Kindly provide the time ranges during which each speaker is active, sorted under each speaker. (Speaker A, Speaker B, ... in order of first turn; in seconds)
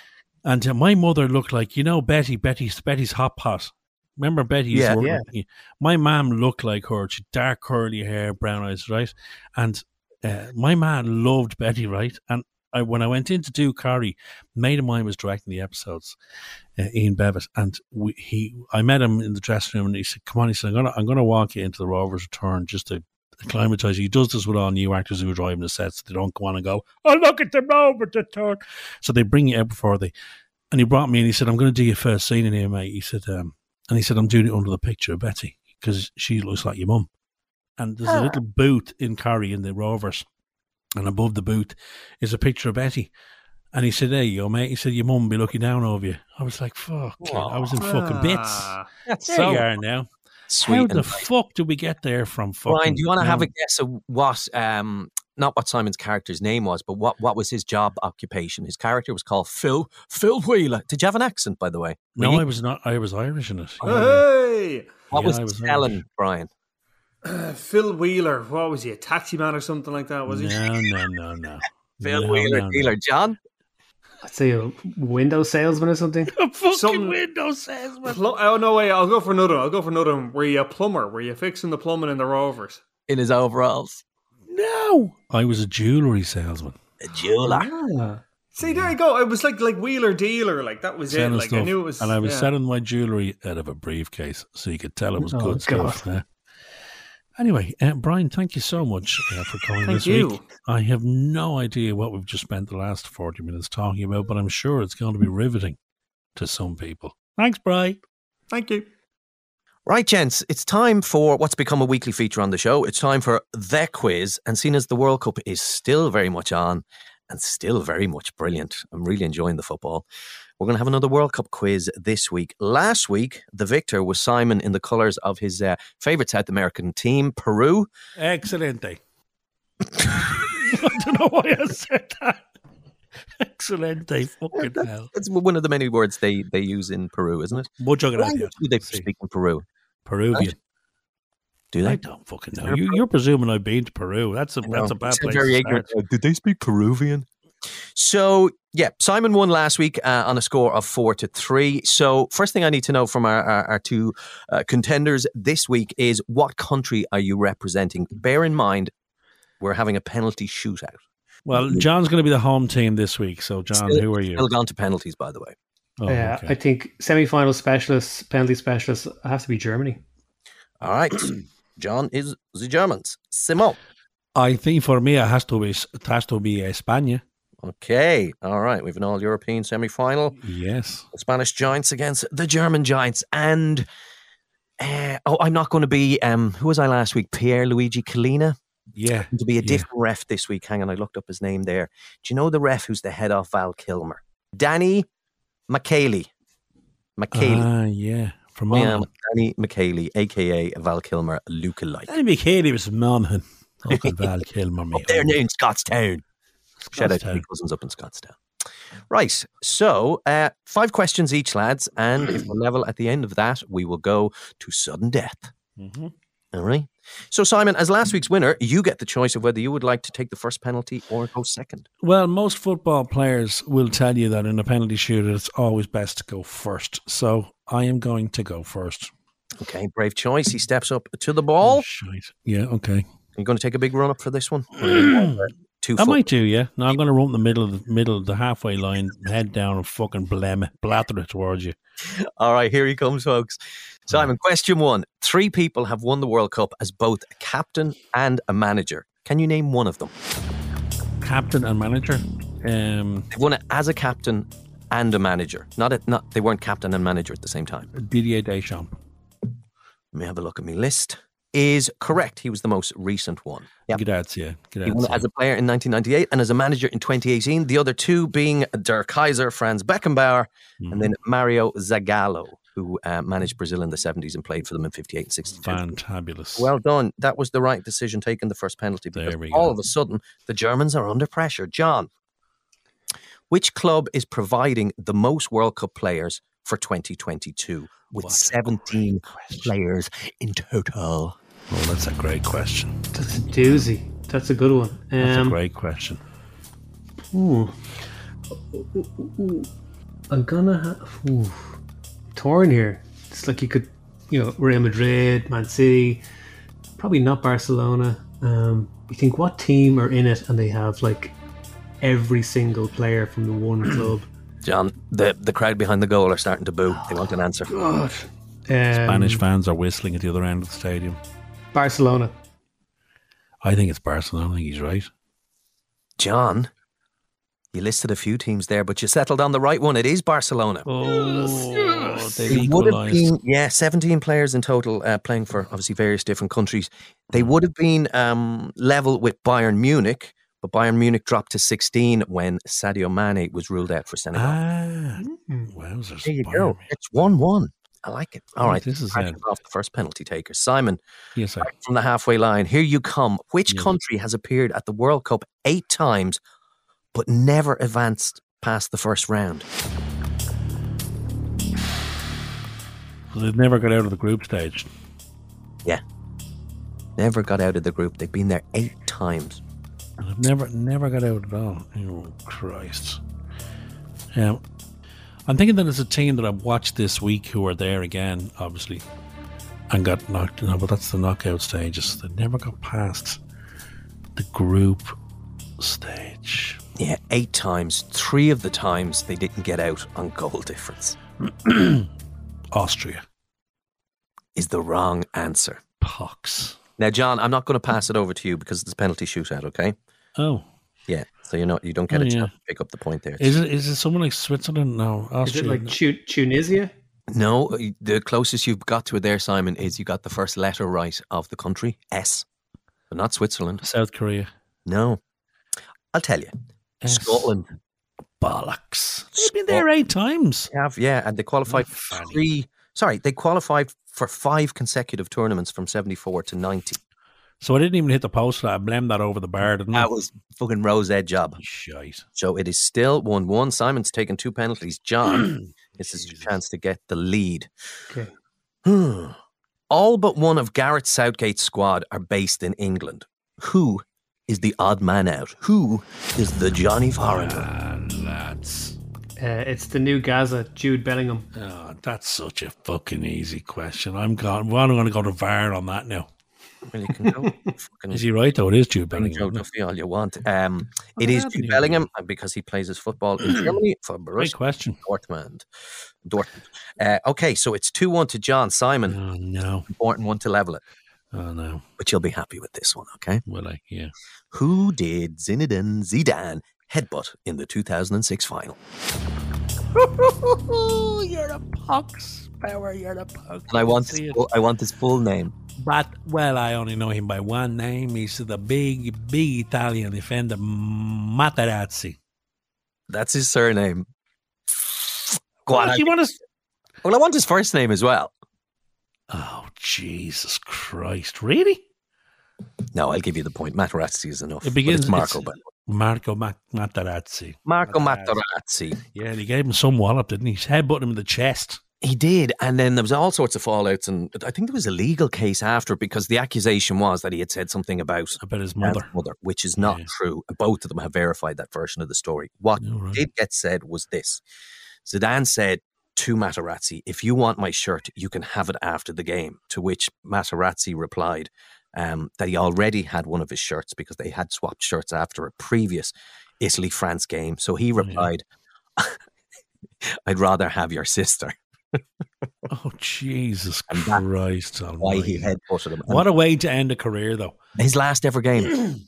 Speaker A: 0.4-16.1, 16.8-30.1, 30.7-37.1, 37.8-40.2, 41.0-43.1, 43.7-48.7, 49.3-50.1, 50.6-53.5, 62.1-64.2, 65.1-66.0, 70.3-72.9, 76.3-78.2, 84.5-86.8, 88.6-88.9, 91.1-96.2, 97.4-105.8, 106.3-108.0, 128.2-129.0, 130.6-132.4, 133.4-135.1, 137.8-139.1, 140.1-140.6, 141.8-145.9, 161.4-164.5, 166.0-166.5, 174.3-177.2, 180.4-181.0, 188.9-189.9, 197.3-199.1, 202.1-205.4, 206.8-207.4, 215.8-216.1, 222.0-229.1, 231.6-233.0, 234.8-241.7, 251.2-253.3, 257.9-258.9, 263.9-265.2, 270.8-271.1, 275.6-276.7, 279.1-279.8, 288.1-289.7, 291.7-293.0, 293.5-293.9, 295.2-296.2, 318.9-321.2, 323.6-325.1, 330.9-333.3, 344.3-346.9, 348.6-349.4, 351.4-351.7, 353.7-353.9, 363.3-364.9, 370.2-373.2, 374.3-374.6, 375.5-379.0, 379.9-383.4, 384.4-385.1, 385.8-386.8, 391.4-392.1, 392.7-393.2, 396.0-396.8, 400.4-400.6, 402.1-402.5, 403.4-406.0, 413.8-414.5, 417.0-417.5, 418.4-420.7, 421.6-422.4, 427.6-430.1, 431.6-432.2, 435.4-436.5, 447.2-448.9, 451.5-456.3, 458.1-459.6, 461.2-462.1, 463.4-463.8, 464.4-465.0, 469.1-469.9, 471.3-471.8, 473.5-474.1, 480.0-484.4, 485.8-492.2, 495.7-496.4, 499.3-501.8, 504.6-508.4, 509.1-511.8, 518.4-519.1, 519.8-520.1, 522.8-523.2, 538.0-538.3, 542.7-545.5, 546.1-547.5
Speaker B: 4.7-5.2, 38.0-38.4, 47.2-47.8, 49.1-49.7, 50.5-51.2, 52.7-62.4, 65.1-66.5, 72.0-73.4, 83.1-84.0, 87.0-87.7, 109.8-120.0, 120.6-127.9, 134.5-139.6, 141.7-142.0, 142.6-143.0, 144.6-147.3, 147.9-158.9, 159.6-161.0, 161.5-161.8, 163.7-165.5, 170.8-173.8, 177.6-180.4, 181.1-183.8, 184.8-188.6, 189.3-195.1, 195.7-196.3, 197.2-197.7, 198.7-202.1, 203.9-204.2, 204.9-206.2, 206.9-208.4, 209.1-215.5, 216.5-221.9, 229.6-231.8, 233.3-236.2, 242.1-250.1, 253.3-257.9, 260.1-264.0, 264.8-275.8, 276.6-282.1, 283.5-291.4, 314.6-317.7, 326.2-326.7, 327.7-330.9, 332.4-344.6, 346.2-351.0, 351.6-356.4, 357.1-359.6, 367.2-369.6, 386.9-391.2, 394.5-395.8, 397.0-399.9, 401.1-403.6, 407.3-412.4, 413.1-413.8, 414.9-415.2, 416.1-416.5, 417.0-417.7, 419.4-419.8, 420.7-427.0, 429.9-431.6, 432.4-437.7, 438.8-439.4, 439.9-447.7, 456.9-458.2, 459.1-465.7, 466.2-469.2, 469.9-470.8, 472.0-473.4, 474.5-478.8, 483.7-485.5, 493.1-494.1, 495.0-496.1, 497.0-498.3, 502.9-505.6, 507.6-509.0, 512.0-524.4, 525.0-538.4, 540.0-542.0, 543.9-544.2, 545.0-546.2, 547.8-548.8
Speaker C: 47.8-48.9, 63.8-65.0, 67.2-70.6, 76.7-77.2, 78.0-82.8, 88.6-92.5, 99.8-100.4, 108.5-108.8
Speaker D: 74.2-76.3, 87.4-88.2, 95.2-96.0, 166.1-170.0, 293.1-295.6, 297.3-297.8, 298.7-299.7, 300.3-301.8, 302.3-306.2, 307.0-311.3, 312.0-314.2, 317.7-319.4, 321.7-322.3, 345.3-345.7, 405.4-406.9, 449.4-451.4